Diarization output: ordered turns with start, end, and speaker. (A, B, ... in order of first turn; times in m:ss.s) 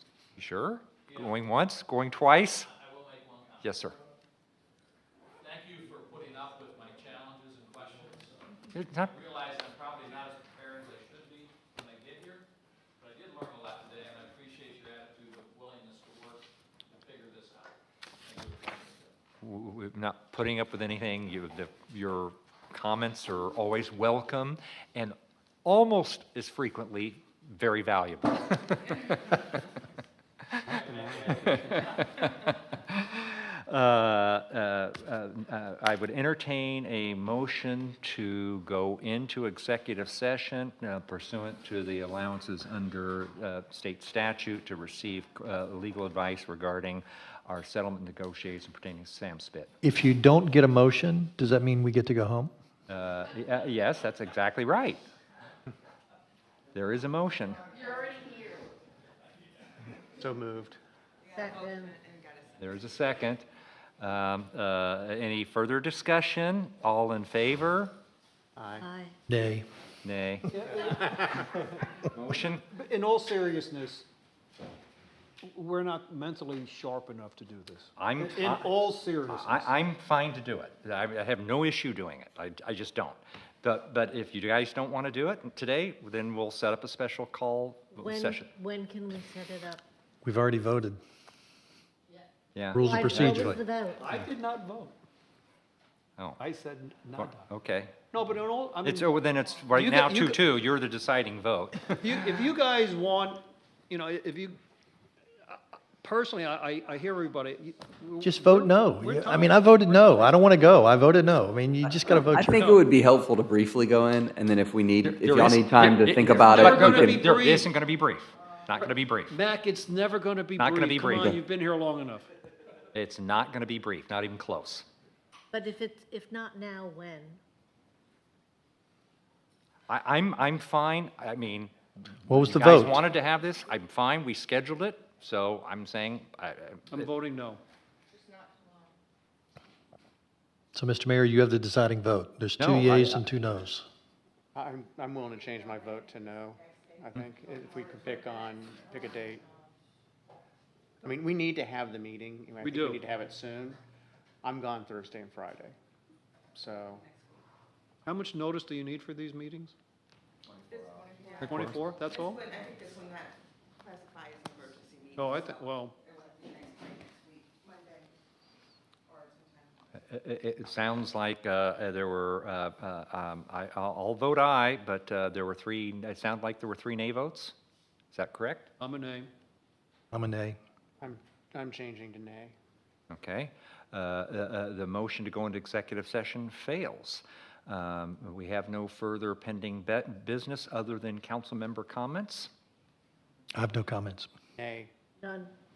0:00.4-0:02.7 A
0:02.7-0:03.9 B
0:03.6-0:04.0 A
0:05.4-0:12.4 B
0:08.7-0:09.1 A
0:13.0-0:17.7 B
0:18.2-0:19.1 B
0:19.4-0:29.2 A
0:30.6-0:32.0 B
0:31.4-0:49.7 A
0:49.8-0:52.5 C
0:52.9-0:55.0 A
0:56.7-0:57.6 A
1:00.1-1:00.8 D
1:01.2-1:03.0 E
1:01.3-1:02.0 F
1:02.6-1:03.4 A
1:04.0-1:07.9 A
1:08.6-1:08.9 D
1:08.8-1:09.1 F
1:09.3-1:09.7 C
1:10.0-1:10.5 A
1:10.5-1:11.0 G
1:12.0-1:12.6 A
1:12.7-1:14.1 G
1:15.4-1:19.7 G
1:18.0-1:18.7 A
1:19.2-1:28.5 A
1:27.9-1:29.8 F
1:30.2-1:31.0 C
1:32.5-1:33.6 A
1:32.7-1:33.6 C
1:32.8-1:34.0 F
1:34.0-1:34.9 G
1:36.4-1:37.5 G
1:37.2-1:37.9 A
1:38.1-1:39.1 G
1:38.8-1:42.0 A
1:39.7-1:40.4 G
1:42.0-1:44.6 G
1:45.5-1:50.4 G
1:48.2-1:52.7 C
1:52.0-1:57.2 H
1:55.0-1:59.3 A
1:56.4-1:57.7 G
1:59.3-2:02.3 G
2:00.6-2:01.4 A
2:02.9-2:04.8 A
2:05.5-2:07.4 F
2:09.9-2:11.7 A
2:12.2-2:17.1 A
2:12.3-2:13.0 C
2:16.9-2:17.6 G
2:18.1-2:18.9 E
2:20.7-2:23.9 C
2:22.6-2:23.2 A
2:24.5-2:29.4 D
2:25.5-2:26.0 E
2:26.6-2:29.7 E
2:31.0-2:33.8 D
2:32.6-2:33.0 G
2:34.4-2:35.7 D
2:36.5-2:37.1 D
2:37.0-2:37.4 E
2:38.0-2:39.7 G
2:40.6-2:48.1 E
2:41.4-2:42.5 G
2:45.1-2:46.0 G
2:49.1-2:49.8 E
2:50.0-2:57.5 A
2:58.1-2:58.7 A
2:58.8-2:59.3 G
3:00.1-3:00.6 C
3:01.0-3:02.5 D
3:03.1-3:12.5 A
3:13.5-3:14.3 C
3:14.6-3:14.9 D
3:15.2-3:15.5 F